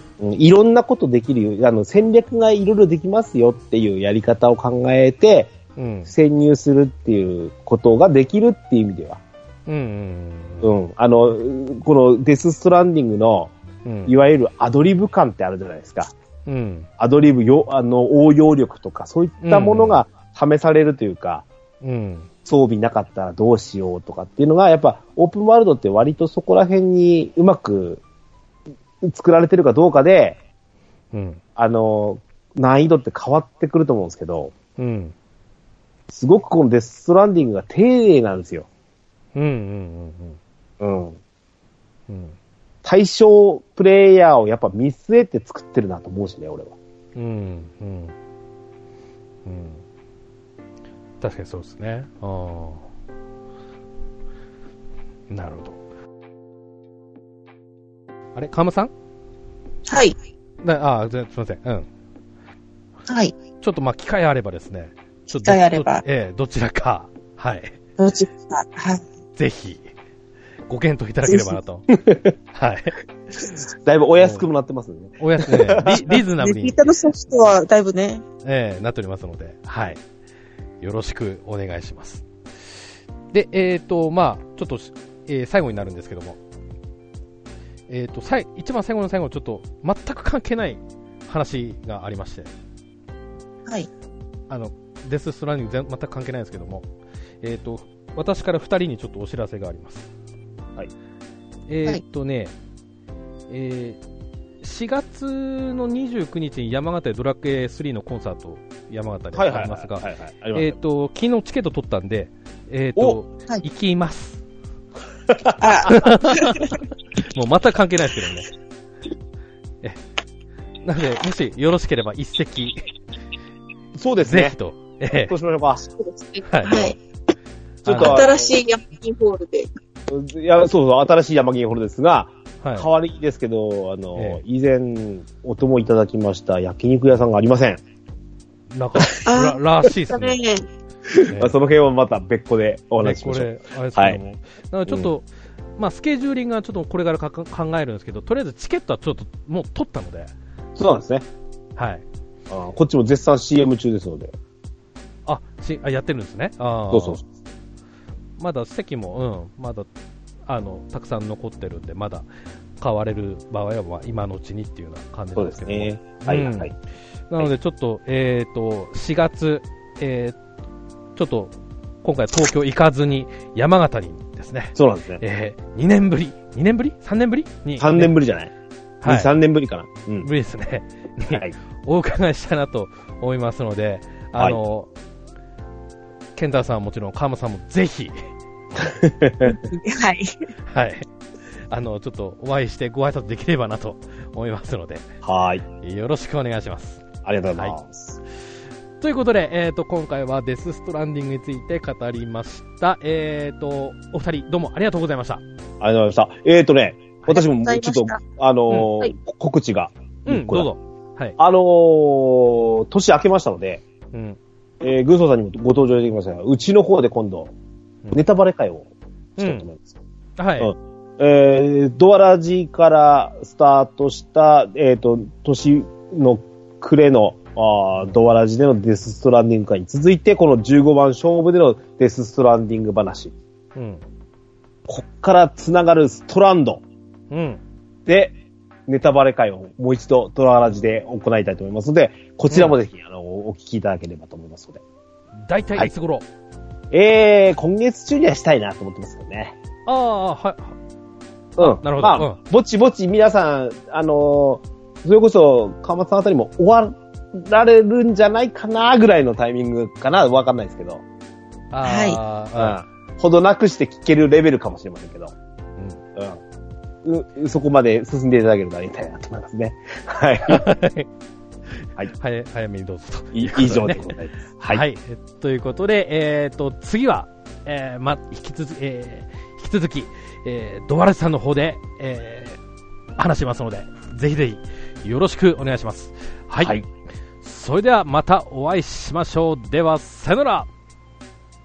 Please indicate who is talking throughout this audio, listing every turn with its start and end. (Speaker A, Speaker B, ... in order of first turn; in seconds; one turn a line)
Speaker A: 0.2-5.5
Speaker B: 5.8-6.1
Speaker A: 6.1-9.2
Speaker B: 9.7-10.8
Speaker A: 10.6-13.5
Speaker B: 13.8-14.1
Speaker A: 14.1-16.1
Speaker B: 16.4-16.9
Speaker A: 17.0-21.4
Speaker B: 19.4-20.0
Speaker B: 21.8-22.3
Speaker A: 22.4-28.0
Speaker A: 29.0-30.4
Speaker B: 31.1-31.4
Speaker A: 31.6-34.5
Speaker B: 34.8-35.1
Speaker A: 36.1-38.7
Speaker B: 39.4-40.4
Speaker A: 40.8-41.2
Speaker B: 42.1-42.3
Speaker A: 42.8-46.8
Speaker B: 47.1-48.1
Speaker B: 49.5-49.8
Speaker B: 51.2-52.8
Speaker B: 55.3-55.8
Speaker B: 58.4-58.9
Speaker C: 59.9-60.1
Speaker B: 60.6-61.9
Speaker C: 63.1-63.3
Speaker B: 63.6-67.8
Speaker C: 65.4-66.0
Speaker C: 68.0-69.0
Speaker B: 69.4-69.9
Speaker B: 70.7-71.9
Speaker C: 71.2-71.6
Speaker A: 71.9-72.3
Speaker B: 72.5-73.0
Speaker A: 73.8-76.1
Speaker B: 75.2-76.9
Speaker C: 76.4-78.2
Speaker B: 78.4-80.0
Speaker B: 80.8-82.2
Speaker B: 83.3-86.4
Speaker B: 87.9-92.5
Speaker B: 94.5-96.9
Speaker B: 97.4-100.1
Speaker B: 101.7-102.5
Speaker B: 103.5-104.0
Speaker B: 104.6-114.4
Speaker A: 109.3-110.8
Speaker A: 115.3-115.9
Speaker C: 115.6-116.8
Speaker B: 115.9-118.5
Speaker B: 120.8-122.8
Speaker A: 123.9-124.6
Speaker B: 124.2-125.3
Speaker A: 125.3-126.0
Speaker C: 126.0-127.0
Speaker B: 126.5-126.9
Speaker B: 127.8-128.3
Speaker A: 127.8-128.5
Speaker C: 128.0-129.7
Speaker A: 130.1-137.8
Speaker B: 132.6-132.9
Speaker B: 134.1-134.4
Speaker B: 138.7-140.4
Speaker C: 139.2-140.6
Speaker A: 141.1-144.2
Speaker B: 141.3-141.6
Speaker B: 143.0-145.2
Speaker B: 145.8-150.3
Speaker A: 150.8-151.2
Speaker B: 151.8-152.0
Speaker A: 152.5-154.3
Speaker B: 155.2-157.2
Speaker A: 156.9-157.2
Speaker B: 158.4-159.9
Speaker B: 160.5-162.2
Speaker B: 162.8-166.7
Speaker A: 165.4-166.7
Speaker B: 167.3-170.4
Speaker B: 171.2-178.1
Speaker A: 174.8-175.2
Speaker A: 177.8-178.5
Speaker B: 179.0-179.3
Speaker A: 179.0-180.3
Speaker B: 180.2-184.9
Speaker A: 181.3-181.6
Speaker B: 186.4-188.1
Speaker A: 188.8-189.6
Speaker C: 189.4-190.4
Speaker B: 190.7-191.1
Speaker B: 191.7-195.1
Speaker A: 195.2-195.6
Speaker B: 195.8-197.8
Speaker A: 197.2-198.2
Speaker B: 199.0-205.4
Speaker A: 205.8-210.7
Speaker C: 207.3-208.2
Speaker B: 210.2-211.4
Speaker A: 211.4-213.8
Speaker B: 214.1-214.4
Speaker A: 214.8-217.5
Speaker A: 218.1-219.9
Speaker B: 219.4-219.7
Speaker B: 220.4-220.7
Speaker A: 220.6-233.3
Speaker B: 233.7-234.0
Speaker A: 234.9-236.8
Speaker B: 237.3-237.6
Speaker A: 238.1-238.3
Speaker A: 238.9-244.8
Speaker B: 242.5-242.7
Speaker B: 245.4-246.2
Speaker A: 246.9-249.6
Speaker B: 249.9-250.7
Speaker B: 251.6-252.4
Speaker A: 251.6-261.0
Speaker B: 261.7-262.8
Speaker C: 261.8-262.2
Speaker A: 262.6-265.3
Speaker A: 267.0-270.6
Speaker B: 270.5-271.1
Speaker B: 272.1-274.1
Speaker A: 273.3-274.8
Speaker B: 274.7-282.6
Speaker B: 283.1-286.8
Speaker B: 287.4-290.7